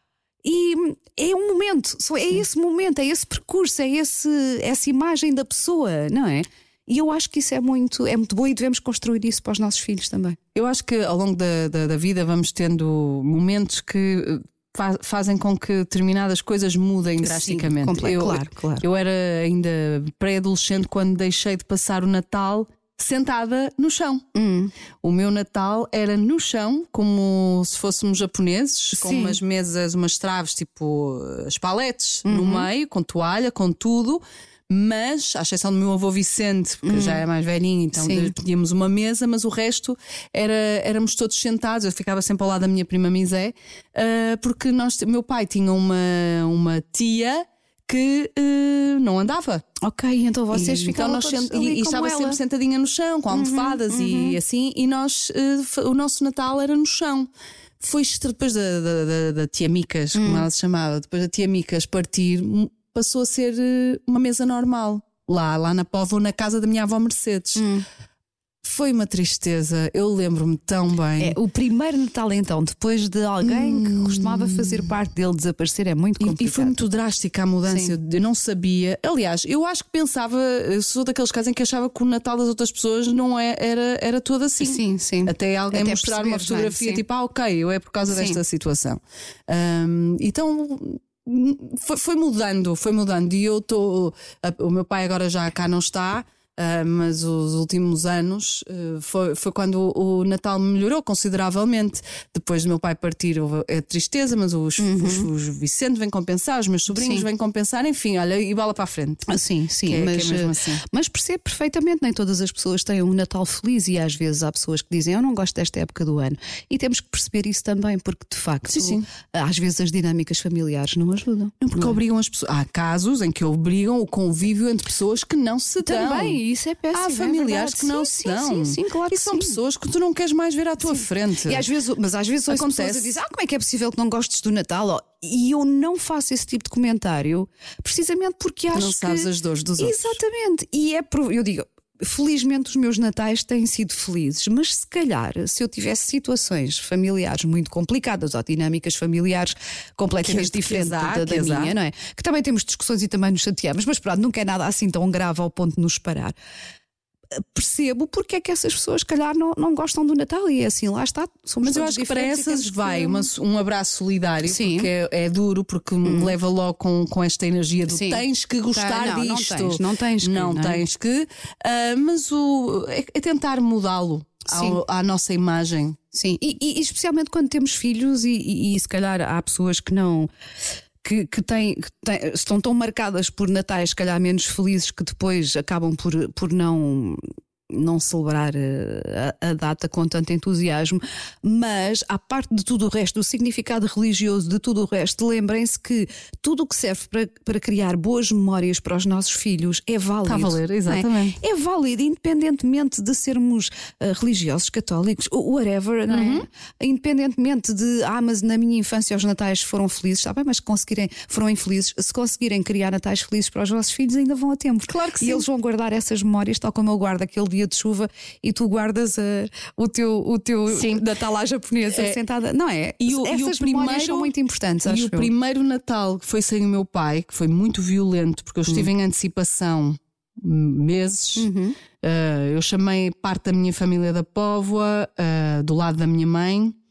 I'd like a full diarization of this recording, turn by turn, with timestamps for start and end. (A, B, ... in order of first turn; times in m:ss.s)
0:00.4-0:10.4 A
0:10.6-0:24.2 B
0:17.2-0:18.9 A
0:24.3-0:24.7 A
0:25.0-0:49.7 B
0:29.0-0:29.4 A
0:32.2-0:32.7 A
0:36.8-0:37.2 A
0:38.0-0:38.3 A
0:49.8-0:52.4 A
0:50.5-1:07.7 B
0:53.3-0:54.4 A
1:00.2-1:00.5 A
1:07.6-1:07.9 A
1:08.6-1:11.4 B
1:11.2-1:16.8 A
1:13.4-1:14.9 B
1:16.2-1:49.3 B
1:17.7-1:18.0 A
1:24.6-1:27.0 A
1:28.1-1:28.4 A
1:44.8-1:45.3 A
1:46.9-1:47.3 A
1:49.3-2:02.0 A
1:49.8-1:50.8 B
1:58.7-1:59.1 B
2:01.6-2:06.4 B
2:05.8-2:09.6 A
2:06.9-2:11.6 B
2:10.8-2:36.4 A
2:12.5-2:13.2 B
2:18.7-2:20.2 B
2:30.2-2:31.8 B
2:37.3-2:43.3 A
2:41.6-2:56.0 B
2:44.4-2:44.9 A
2:46.0-2:46.4 A
2:47.9-2:50.8 A
2:54.5-2:54.8 A
2:56.1-3:00.3 A
3:01.0-3:45.3 A
3:20.3-3:21.4 B
3:26.1-3:26.5 B
3:34.9-3:35.4 B
3:40.7-3:41.3 B
3:41.9-3:42.2 B
3:43.0-3:51.5 B
3:51.4-3:51.8 A
3:52.0-3:56.8 B